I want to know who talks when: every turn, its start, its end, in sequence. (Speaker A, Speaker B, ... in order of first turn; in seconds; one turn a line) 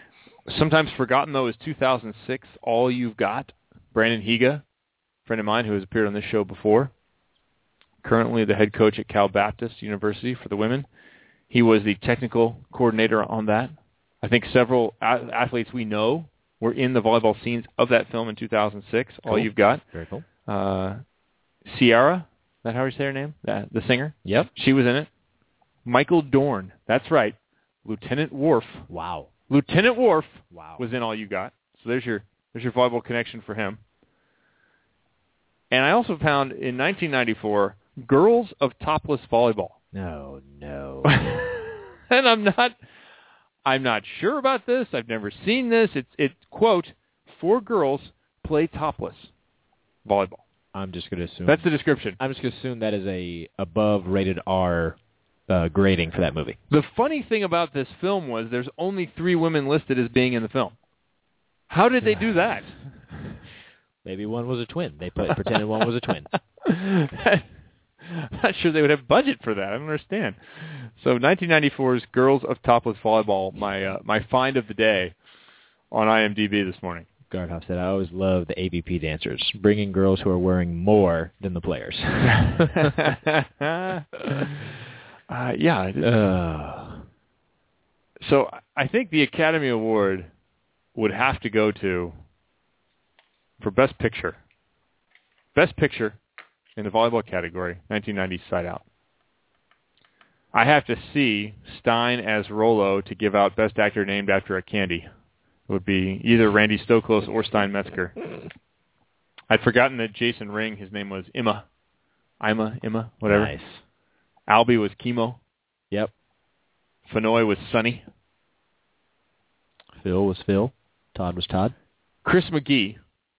Speaker A: 0.5-4.7
Speaker A: 5.2-6.9
Speaker A: 8.0-10.9
Speaker A: 11.5-21.1
Speaker B: 19.3-20.3
Speaker A: 21.6-25.1
Speaker B: 24.2-24.5
Speaker A: 25.8-28.9
Speaker B: 28.9-29.3
Speaker A: 29.5-33.8
Speaker B: 30.5-30.8
Speaker A: 35.7-39.8
Speaker B: 39.9-41.2
Speaker A: 41.1-42.8
Speaker A: 43.6-49.3
Speaker A: 50.0-50.4
Speaker B: 50.7-56.6
Speaker A: 51.5-52.2
Speaker A: 56.7-60.8
Speaker A: 61.7-63.2
Speaker B: 62.0-62.9
Speaker B: 64.0-66.3
Speaker A: 66.7-67.4
Speaker A: 68.0-75.2
Speaker A: 75.9-77.1
Speaker B: 77.3-82.9
Speaker A: 83.0-84.0
Speaker A: 85.3-86.1
Speaker B: 86.0-87.1
Speaker A: 88.2-90.3
Speaker A: 90.9-92.2
Speaker A: 93.6-94.4
Speaker A: 95.5-96.2
Speaker A: 96.8-98.8
Speaker A: 100.5-108.3
Speaker A: 109.5-111.7
Speaker A: 112.4-113.5
Speaker B: 113.2-113.8
Speaker A: 114.5-115.4
Speaker A: 117.1-118.1
Speaker B: 120.0-121.8
Speaker A: 122.2-123.0